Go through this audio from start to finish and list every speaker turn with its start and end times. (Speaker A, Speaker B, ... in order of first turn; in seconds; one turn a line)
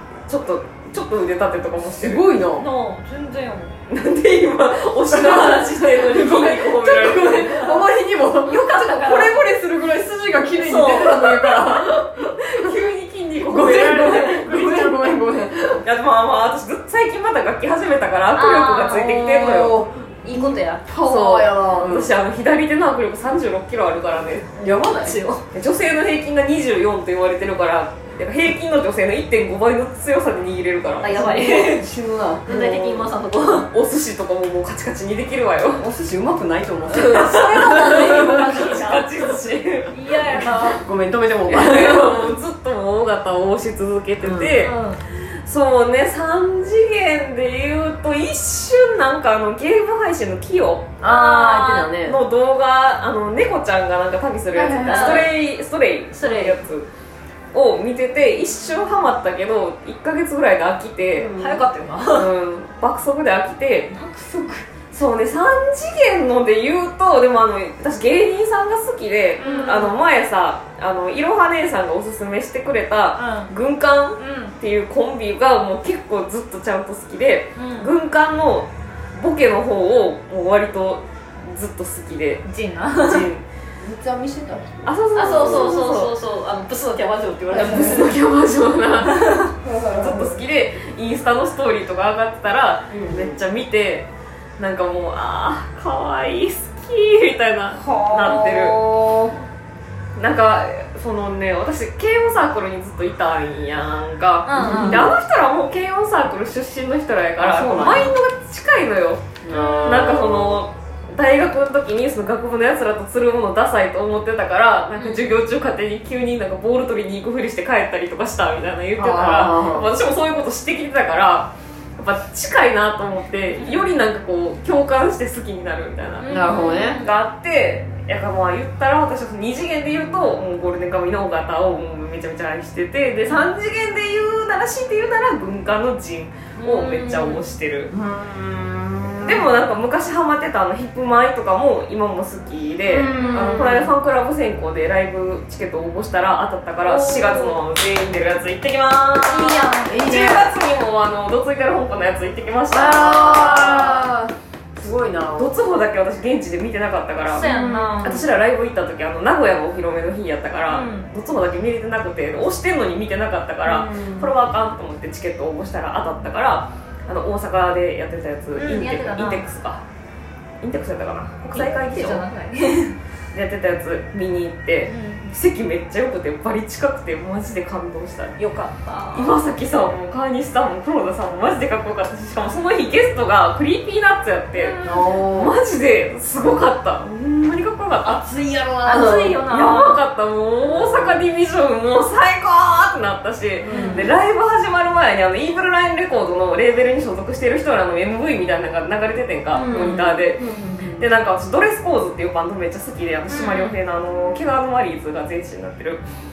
Speaker A: 0.3-2.2
Speaker B: 2.0-2.7
Speaker C: 2.6-3.7
Speaker A: 3.9-7.6
Speaker B: 5.1-12.7
Speaker C: 7.5-7.8
Speaker C: 8.4-9.4
Speaker C: 10.6-11.2
Speaker A: 10.8-15.1
Speaker B: 13.4-15.8
Speaker A: 15.8-19.8
Speaker C: 18.3-19.3
Speaker B: 18.9-22.1
Speaker C: 20.2-20.8
Speaker A: 21.0-24.5
Speaker B: 24.6-25.2
Speaker C: 24.9-25.4
Speaker A: 25.5-31.3
Speaker C: 31.0-31.9
Speaker B: 31.1-33.0
Speaker C: 32.5-33.7
Speaker A: 33.7-35.9
Speaker B: 35.8-38.7
Speaker C: 36.9-39.1
Speaker A: 36.9-39.9
Speaker C: 39.9-40.8
Speaker B: 40.4-42.3
Speaker A: 41.5-56.9
Speaker B: 44.2-44.5
Speaker C: 44.6-45.0
Speaker B: 51.0-52.2
Speaker C: 51.0-51.8
Speaker B: 54.5-55.3
Speaker C: 54.9-55.3
Speaker C: 56.1-56.6
Speaker A: 57.5-61.3
Speaker B: 61.2-61.6
Speaker C: 61.3-62.3
Speaker A: 62.1-63.9
Speaker B: 63.9-64.7
Speaker A: 64.9-82.4
Speaker C: 69.4-70.0
Speaker C: 73.2-73.5
Speaker C: 74.2-74.5
Speaker C: 77.5-77.9
Speaker C: 82.4-83.3
Speaker A: 83.0-83.4
Speaker B: 83.8-84.9
Speaker A: 84.8-86.1
Speaker C: 85.1-88.1
Speaker A: 87.5-89.4
Speaker B: 87.5-88.1
Speaker C: 89.0-89.5
Speaker B: 89.6-90.4
Speaker A: 89.9-98.8
Speaker B: 92.9-93.4
Speaker C: 97.8-98.8
Speaker B: 98.3-99.3
Speaker A: 100.2-137.9
Speaker C: 104.5-105.0
Speaker B: 104.5-105.1
Speaker B: 107.4-108.1
Speaker B: 109.4-110.6
Speaker C: 109.5-110.1
Speaker C: 115.0-115.3
Speaker B: 119.0-119.9
Speaker C: 123.5-123.9
Speaker C: 126.2-127.1
Speaker B: 126.3-127.0
Speaker C: 136.6-137.4
Speaker B: 137.9-139.5
Speaker A: 139.2-154.1
Speaker B: 142.8-143.9
Speaker B: 146.8-147.6
Speaker C: 149.2-150.1
Speaker B: 149.9-150.5
Speaker B: 152.7-155.5
Speaker A: 155.3-157.5
Speaker C: 157.3-158.2
Speaker B: 157.4-158.3
Speaker A: 158.0-169.8
Speaker C: 160.7-161.1
Speaker B: 163.6-164.3
Speaker C: 168.6-169.4
Speaker A: 170.6-172.2
Speaker C: 171.5-172.9
Speaker A: 173.3-178.4
Speaker C: 174.9-175.2
Speaker C: 178.4-179.4
Speaker A: 179.1-184.8
Speaker C: 184.5-185.2
Speaker B: 184.8-185.6
Speaker A: 185.3-188.2
Speaker B: 188.0-189.4
Speaker C: 188.8-190.0
Speaker A: 189.4-206.0
Speaker B: 190.8-191.1
Speaker B: 193.6-194.1
Speaker C: 193.7-194.0
Speaker B: 199.5-201.1
Speaker C: 203.3-203.8